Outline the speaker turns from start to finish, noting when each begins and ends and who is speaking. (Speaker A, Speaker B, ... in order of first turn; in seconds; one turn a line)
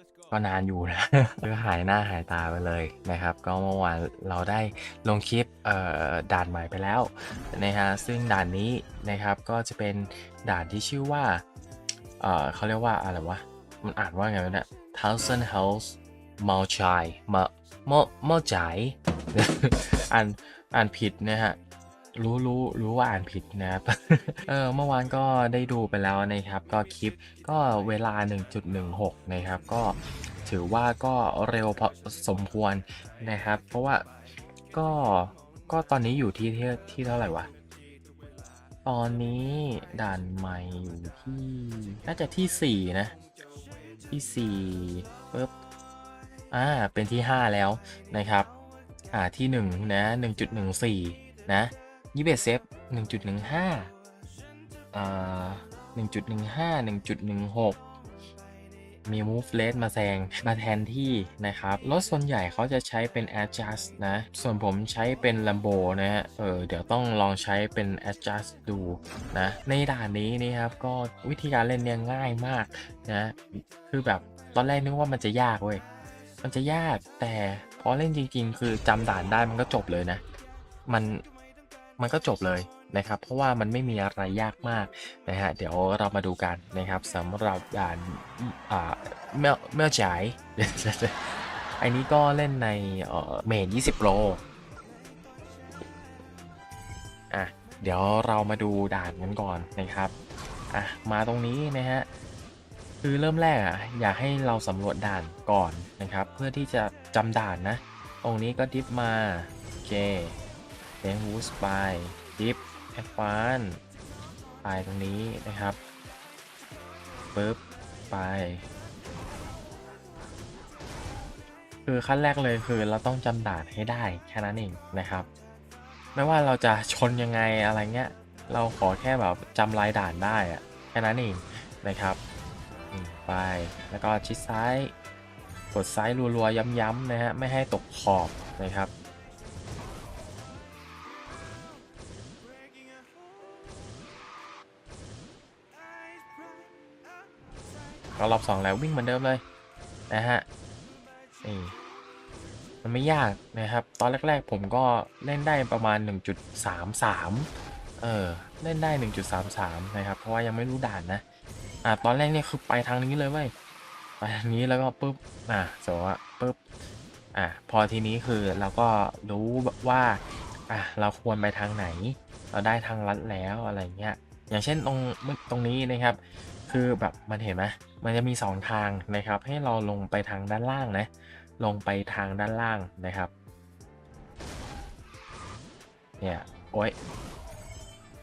Speaker A: 0.3-11.4
Speaker A: 12.2-21.6
Speaker A: 22.1-34.1
Speaker A: 34.7-37.5
Speaker A: 38.8-43.1
Speaker A: 44.1-45.5
Speaker A: 46.5-48.5
Speaker A: 49.1-53.9
Speaker A: 54.9-57.8
Speaker A: 59.0-75.8
Speaker A: 76.4-80.2
Speaker A: 80.9-81.2
Speaker A: 82.0-94.4
Speaker A: 97.3-100.2
Speaker A: 100.7-102.1
Speaker A: 103.0-110.4
Speaker A: 111.0-113.8
Speaker A: 114.6-115.8
Speaker A: 117.3-118.6
Speaker A: 121.8-125.3
Speaker A: 126.1-132.2
Speaker A: 132.9-134.9
Speaker A: 135.7-138.9
Speaker A: 148.1-149.4
Speaker A: 150.1-150.4
Speaker A: 151.4-151.8
Speaker A: 152.8-161.2
Speaker A: 161.8-163.5
Speaker A: 164.2-166.6
Speaker A: 167.3-183.3
Speaker A: 186.2-186.9